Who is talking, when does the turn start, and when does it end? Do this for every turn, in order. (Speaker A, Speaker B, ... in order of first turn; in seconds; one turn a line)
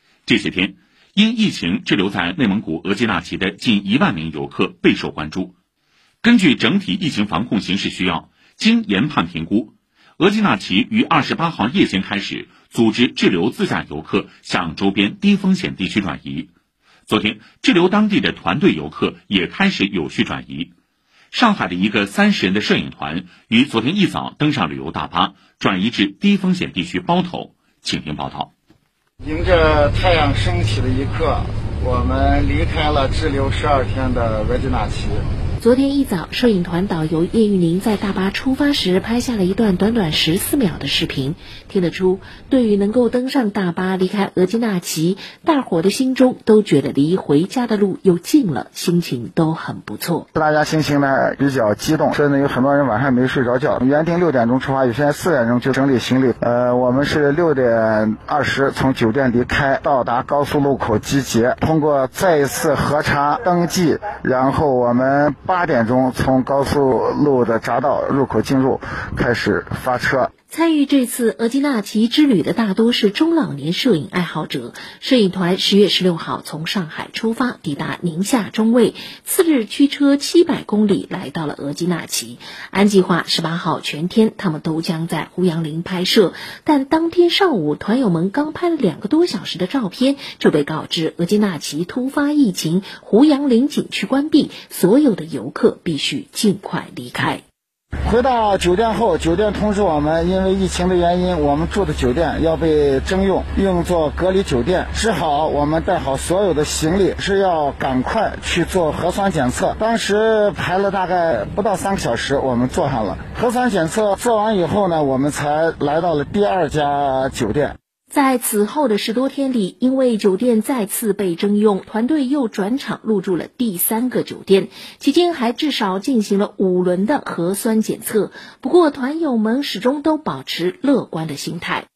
Speaker A: 0.2-5.5
Speaker A: 6.2-16.5
Speaker A: 17.1-20.7
Speaker A: 21.3-28.5
Speaker B: 29.2-35.3
Speaker C: 35.6-50.2
Speaker B: 50.3-70.3
Speaker C: 70.5-97.4
Speaker B: 98.0-117.8
Speaker C: 118.1-131.9